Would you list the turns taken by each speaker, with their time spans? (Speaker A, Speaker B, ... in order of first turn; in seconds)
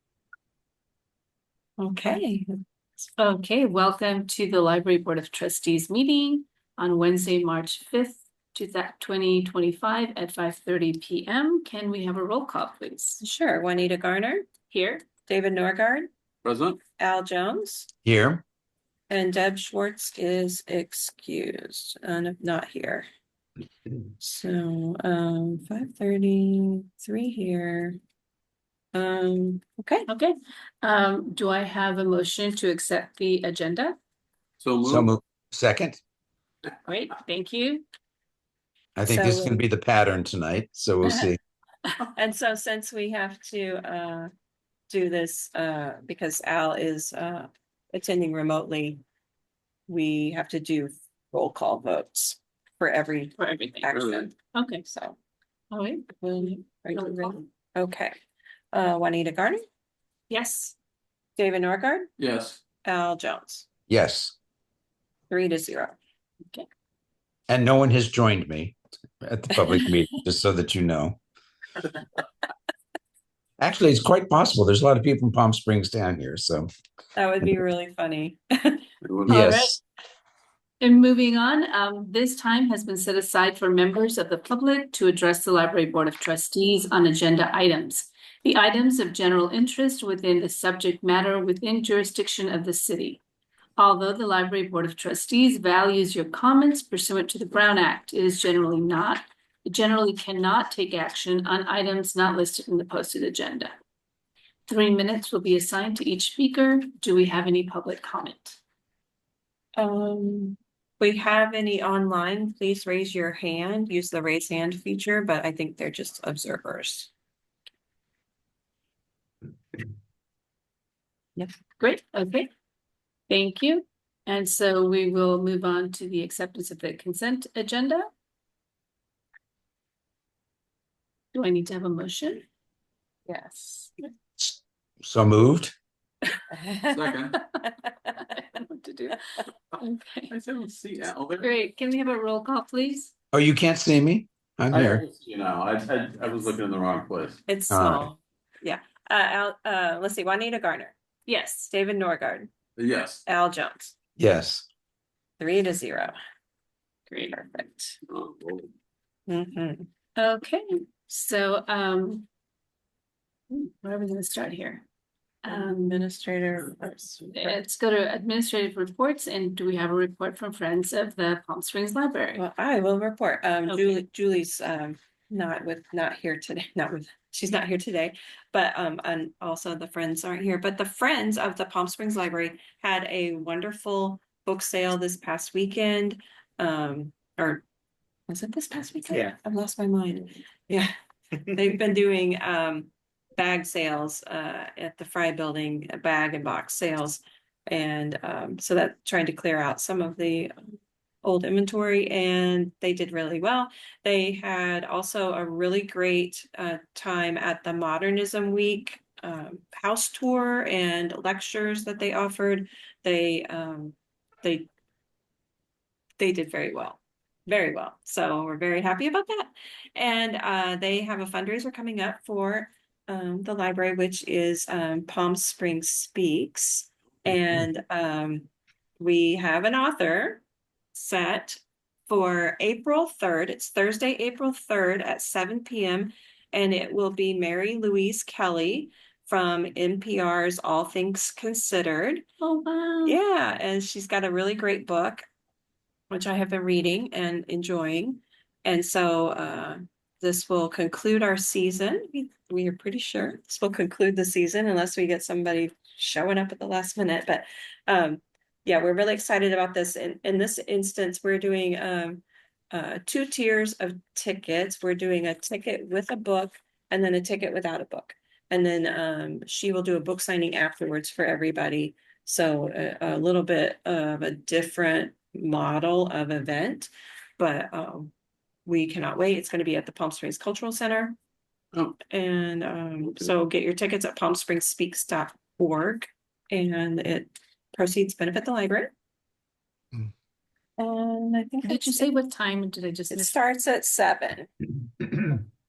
Speaker A: 1.8-3.0, 13.2-14.5, 15.2-16.1, 17.0-17.9, 19.1-23.1, 24.2-28.0, 28.9-30.1, 39.0-39.6, 42.1-44.3, 44.9-49.0, 49.9-54.3, 54.9-55.1, 56.2-58.1, 58.7-59.6, 61.4-62.1, 62.8-63.7, 65.3-66.0, 77.2-78.8, 109.8-117.1, 133.3-133.9, 136.5-137.1, 137.6-138.1, 147.5-150.9, 151.7-152.5, 153.2-153.9, 155.4-156.1, 157.2-157.9, 159.3-159.9, 165.5-167.6, 172.3-187.6, 188.3-190.9, 191.5-200.5, 201.2-214.7, 216.2-228.5, 229.0-230.4, 230.9-242.2, 243.0-245.2, 246.1-278.1, 278.6-281.1, 282.1-288.9, 290.8-292.1, 293.1-294.5
Speaker B: 3.2-13.2, 14.7-15.0, 30.1-34.0, 36.8-37.8, 53.4-54.8, 55.7-57.3, 60.3-60.7, 79.3-79.8, 80.8-93.2, 93.8-103.7, 104.7-108.6, 121.8-122.5, 123.3-128.1, 131.3-132.4, 138.4-139.2, 139.8-140.3, 141.4-143.1, 151.3-151.7, 160.2-162.2, 163.5-164.8, 165.4-166.1, 167.3-172.4, 173.7-174.0, 242.4-243.2, 291.6-293.4
Speaker C: 16.4-16.8, 34.6-35.1, 62.2-62.6, 79.0-79.4, 136.9-137.4, 140.3-141.5, 144.7-147.4, 152.8-153.2, 158.1-158.7
Speaker D: 18.0-18.4, 34.8-36.0, 39.0-41.4, 63.9-64.3, 67.5-71.2, 73.6-76.7, 79.3-79.8, 135.0-135.7, 143.3-145.0, 147.7-148.1, 154.2-154.7